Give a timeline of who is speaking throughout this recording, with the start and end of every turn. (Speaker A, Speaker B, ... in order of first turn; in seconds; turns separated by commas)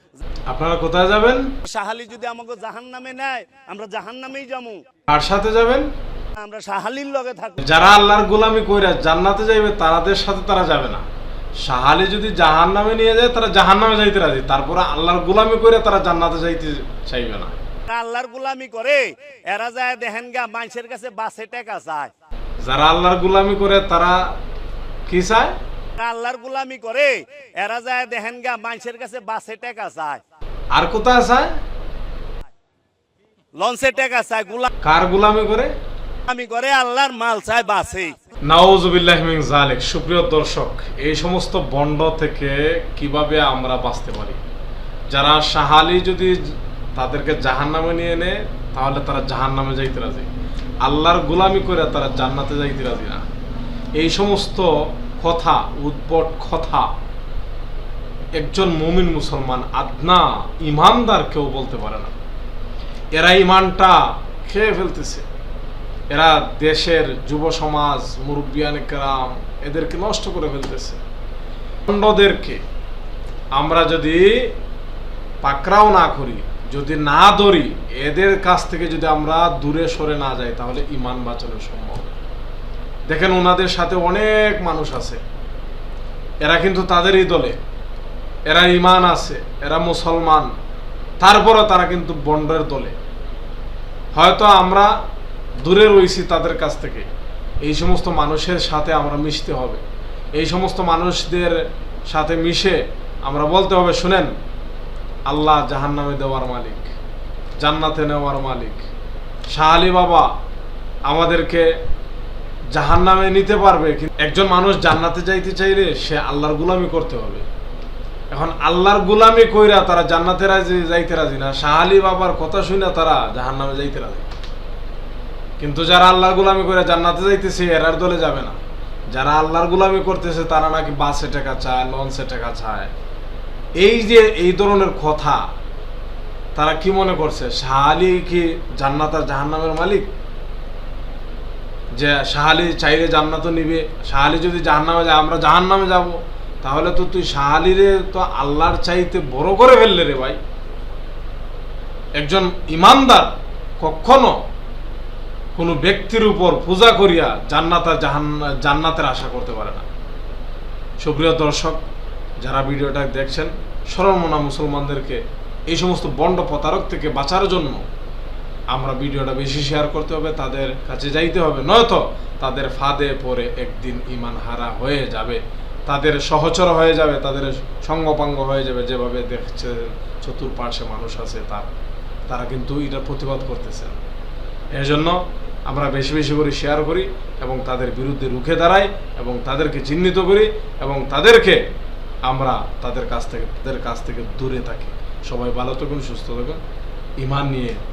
Speaker A: 0.5-1.5, Speaker B: 1.6-4.8, Speaker A: 5.1-5.9, Speaker B: 6.4-7.7, Speaker A: 7.6-11.1, Speaker A: 11.6-17.6, Speaker B: 17.9-22.1, Speaker A: 22.6-24.4, Speaker A: 25.1-25.6, Speaker B: 26.0-30.2, Speaker A: 30.7-31.5, Speaker B: 33.5-34.7, Speaker A: 34.8-35.7, Speaker B: 36.3-38.2, Speaker A: 38.5-44.4, Speaker A: 45.1-50.3, Speaker A: 50.8-53.2, Speaker A: 54.0-56.9, Speaker A: 58.4-62.1, Speaker A: 63.1-65.3, Speaker A: 66.1-71.0, Speaker A: 71.9-72.6, Speaker A: 73.5-74.6, Speaker A: 75.4-82.1, Speaker A: 83.1-85.2, Speaker A: 86.4-87.6, Speaker A: 88.5-90.5, Speaker A: 91.2-93.0, Speaker A: 94.1-94.9, Speaker A: 95.6-97.1, Speaker A: 97.6-99.8, Speaker A: 100.3-104.3, Speaker A: 105.3-106.9, Speaker A: 107.6-108.9, Speaker A: 109.5-110.3, Speaker A: 111.0-111.8, Speaker A: 112.7-117.5, Speaker A: 118.3-124.3, Speaker A: 125.6-128.6, Speaker A: 129.1-132.9, Speaker A: 133.8-135.4, Speaker A: 136.6-140.1, Speaker A: 141.9-150.4, Speaker A: 152.2-154.4, Speaker A: 155.6-159.9, Speaker A: 161.0-161.8, Speaker A: 162.4-167.8, Speaker A: 168.7-181.7, Speaker A: 182.3-184.0, Speaker A: 184.7-191.6, Speaker A: 192.2-196.6, Speaker A: 197.2-197.8